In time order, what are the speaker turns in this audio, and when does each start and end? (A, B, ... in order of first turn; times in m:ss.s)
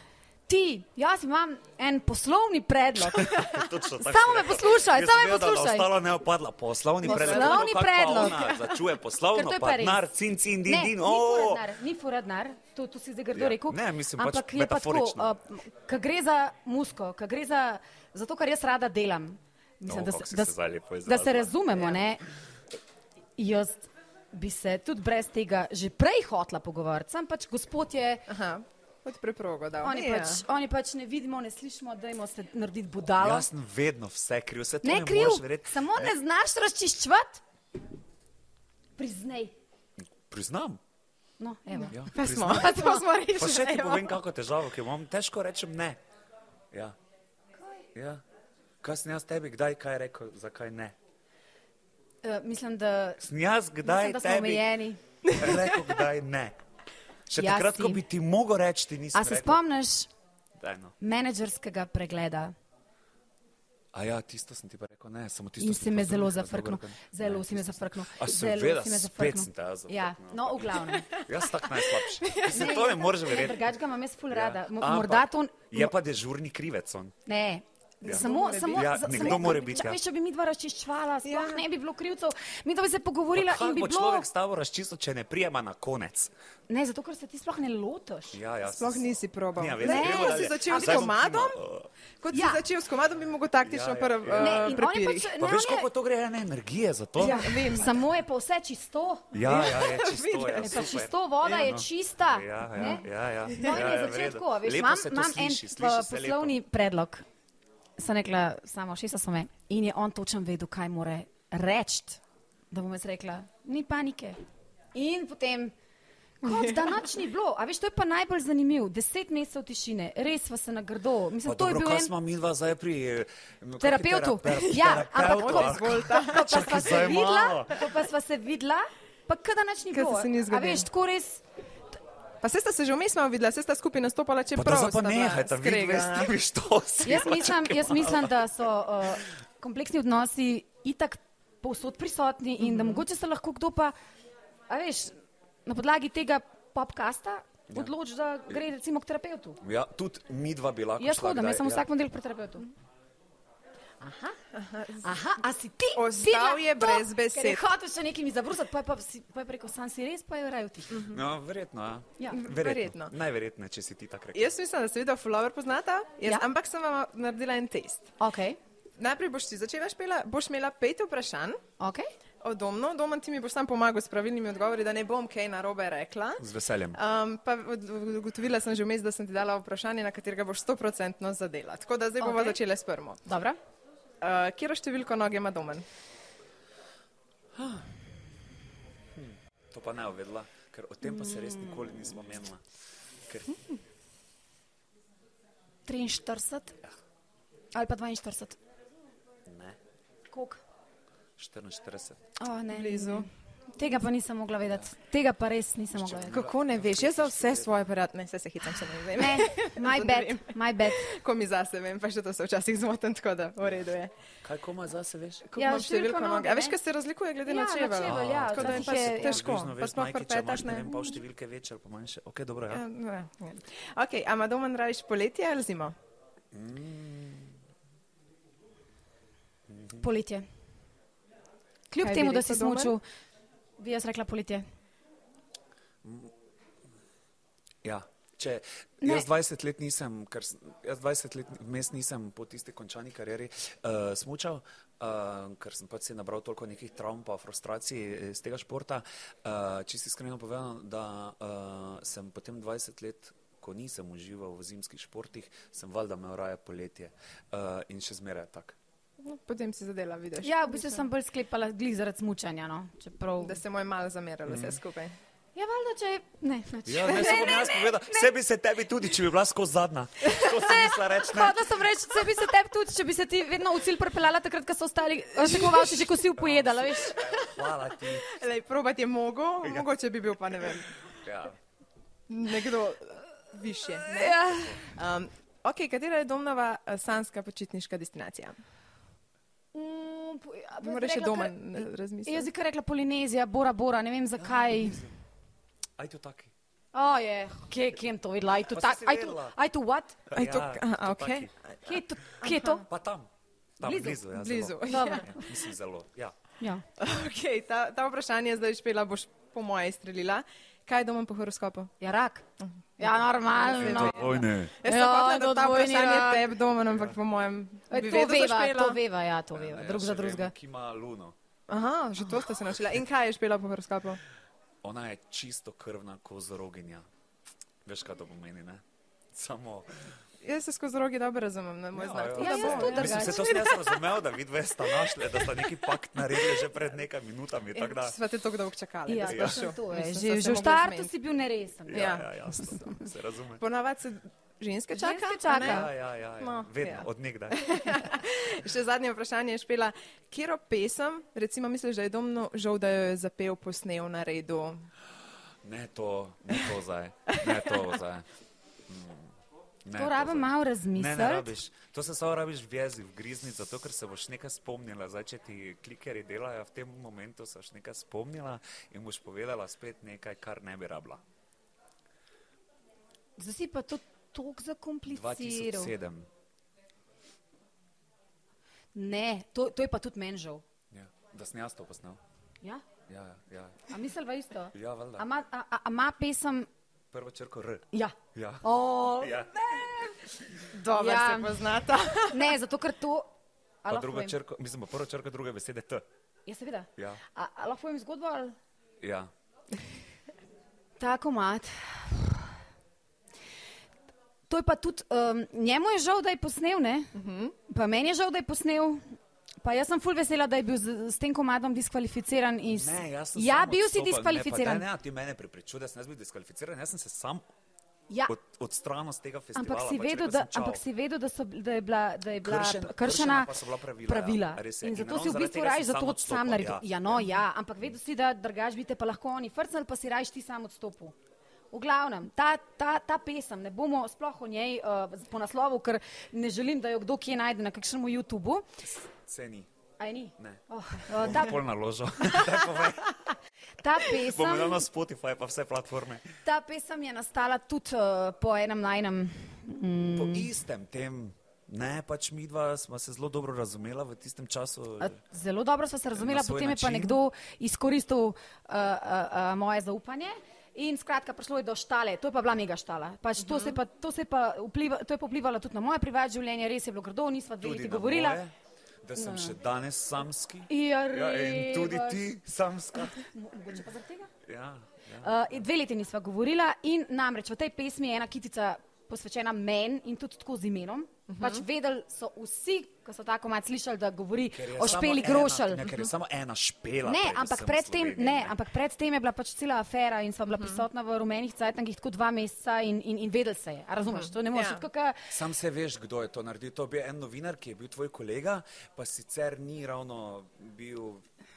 0:00.5-0:05.9 A
0:03.0-0:11.7 B
0:07.0-0:08.6 A
0:07.1-0:07.6 C
0:09.3-0:10.1 A
0:10.6-0:22.2 A
0:13.3-0:15.3 B
0:19.9-0:21.8 B
0:23.4-0:28.3 A
0:28.3-0:30.4 C
0:29.8-0:33.5 A
0:33.2-0:36.1 B
0:34.8-0:37.4 A
0:39.0-0:39.5 A
0:40.3-0:40.8 B
0:41.4-0:43.1 A
0:41.8-0:44.2 C
0:41.9-0:42.8 B
0:43.3-0:46.0 B
0:47.6-0:47.9 A
0:48.0-0:48.2 B
0:48.8-0:51.0 B
0:52.2-0:53.2 A
0:53.2-0:54.7 B
0:53.8-0:55.0 A
0:55.3-0:56.6 B
0:57.3-0:59.6 B
0:57.4-0:58.0 A
0:59.1-1:00.1 A
1:00.6-1:01.0 B
1:01.0-1:02.5 A
1:03.9-1:13.8 B
1:05.6-1:11.2 A
1:11.2-1:12.9 C
1:12.4-1:15.9 A
1:14.3-1:17.2 B
1:17.3-1:24.3 A
1:18.0-1:19.7 C
1:18.0-1:20.0 B
1:21.2-1:21.6 C
1:23.3-1:26.3 B
1:26.7-1:28.4 A
1:28.3-1:31.9 B
1:28.7-1:31.6 C
1:29.8-1:31.1 A
1:32.2-1:35.3 C
1:32.3-1:32.6 A
1:33.6-1:34.9 B
1:34.4-1:35.9 A
1:35.4-1:37.6 B
1:37.2-1:39.9 A
1:37.2-1:38.0 C
1:39.3-1:46.6 B
1:39.4-1:41.0 C
1:40.5-1:47.2 A
1:48.0-1:54.4 A
1:54.9-1:55.8 A
1:56.4-2:02.1 A
1:56.5-1:57.0 C
2:01.4-2:07.8 B
2:03.8-2:11.4 A
2:04.9-2:07.1 C
2:09.9-2:10.9 C
2:12.4-2:16.4 C
2:14.6-2:18.4 B
2:17.0-2:24.0 A
2:22.6-2:23.0 C
2:24.7-2:25.2 A
2:25.7-2:29.6 A
2:29.6-2:31.8 B
2:31.0-2:32.7 A
2:34.0-2:34.4 A
2:34.5-2:35.1 C
2:35.0-2:41.1 A
2:36.0-2:37.6 C
2:40.9-2:41.2 C
2:41.1-2:44.5 B
2:42.3-2:43.1 C
2:44.3-2:48.1 C
2:48.2-2:48.6 A
2:49.0-2:51.6 C
2:51.8-2:52.1 A
2:52.4-3:03.3 C
2:56.4-2:57.0 B
3:02.2-3:02.6 A
3:03.3-3:03.6 A
3:04.2-3:05.8 C
3:07.6-3:07.9 B
3:09.2-3:12.6 B
3:11.1-3:12.0 A
3:13.3-3:13.6 B
3:15.9-3:16.8 A
3:17.8-3:18.6 A
3:19.5-3:19.8 B
3:20.3-3:20.6 A
3:21.4-3:22.2 B
3:22.4-3:26.4 A
3:22.7-3:23.3 C
3:26.0-3:27.9 B
3:26.3-3:34.1 C
3:29.1-3:31.2 A
3:34.4-3:35.5 B
3:35.5-3:36.8 A
3:35.5-3:41.2 C
3:37.4-3:39.5 A
3:38.0-3:42.8 B
3:42.7-3:46.0 C
3:46.5-3:47.6 B
3:49.7-3:50.0 B
3:50.0-3:50.5 A
3:51.9-3:53.0 A
3:52.0-3:53.0 C
3:53.8-3:54.6 A
3:56.0-3:56.3 B
3:57.8-4:18.8 B
3:59.0-3:59.3 A
4:19.2-4:21.0 C
4:20.4-4:23.6 A
4:23.4-4:25.2 C
4:24.5-4:24.8 B
4:25.6-4:28.3 A
4:26.9-4:31.7 B
4:30.3-4:37.3 A
4:35.5-4:36.0 C
4:36.4-4:38.4 B
4:38.2-4:41.0 C
4:41.2-4:41.6 B
4:42.3-4:48.6 C
4:44.1-4:44.9 A
4:49.7-4:55.1 A
4:50.8-4:52.5 C
4:54.4-4:55.1 B
4:56.0-4:56.5 B
4:56.9-5:00.3 A
4:58.6-4:59.6 B
5:00.3-5:01.5 B
5:00.3-5:02.8 C
5:01.8-5:02.9 A
5:02.8-5:06.4 B
5:03.8-5:04.2 A
5:04.2-5:05.4 C
5:04.8-5:05.4 A
5:07.0-5:11.9 C
5:12.0-5:12.4 A
5:13.0-5:16.5 A
5:13.6-5:19.0 C
5:13.8-5:14.8 B
5:17.9-5:20.5 A
5:19.5-5:21.4 B
5:21.7-5:24.2 C
5:24.8-5:27.0 B
5:27.8-5:30.1 B
5:30.4-5:33.8 C
5:32.0-5:38.2 B
5:32.4-5:33.8 A
5:37.8-5:41.1 C
5:39.1-5:43.0 A
5:39.2-5:39.7 B
5:41.9-5:43.6 B
5:41.9-5:42.3 C
5:43.6-5:54.9 C
5:44.9-5:45.9 A
5:45.6-5:48.1 B
5:55.6-5:58.3 B
5:57.3-5:57.7 C
5:58.9-6:11.2 B
5:59.9-6:01.5 A
6:13.4-6:15.9 A
6:15.1-6:16.3 B
6:18.9-6:20.6 A
6:20.9-6:22.2 B
6:23.1-6:23.9 B
6:23.9-6:26.7 A
6:24.7-6:25.3 B
6:27.1-6:30.7 B
6:27.9-6:30.1 A
6:30.7-6:32.6 C
6:30.9-6:31.7 A
6:32.2-6:33.3 A
6:33.8-6:34.4 A
6:33.9-6:36.0 B
6:36.5-6:38.6 A
6:39.0-6:39.3 B
6:41.0-6:42.5 A
6:44.5-6:47.2 A
6:47.1-6:47.6 C
6:47.7-6:54.9 A
6:52.7-6:57.4 B
6:58.1-6:58.4 A
6:58.3-7:00.8 B
6:59.6-7:11.1 A
7:02.4-7:07.3 B
7:11.7-7:18.7 A
7:18.8-7:19.7 B
7:20.0-7:21.6 A
7:20.4-7:23.2 B
7:23.8-7:24.9 A
7:24.0-7:26.3 B
7:26.4-7:30.5 A
7:30.1-7:35.2 B
7:35.0-7:48.4 A
7:36.2-7:37.2 B
7:43.4-7:43.8 C
7:47.6-7:53.2 B
7:49.2-7:49.6 A
7:50.7-7:52.3 A
7:53.0-7:54.3 A
7:54.4-7:55.6 B
7:55.2-8:05.9 A
8:01.3-8:01.6 C
8:04.5-8:08.6 B
8:07.0-8:15.3 A
8:14.1-8:14.9 C
8:15.3-8:21.2 B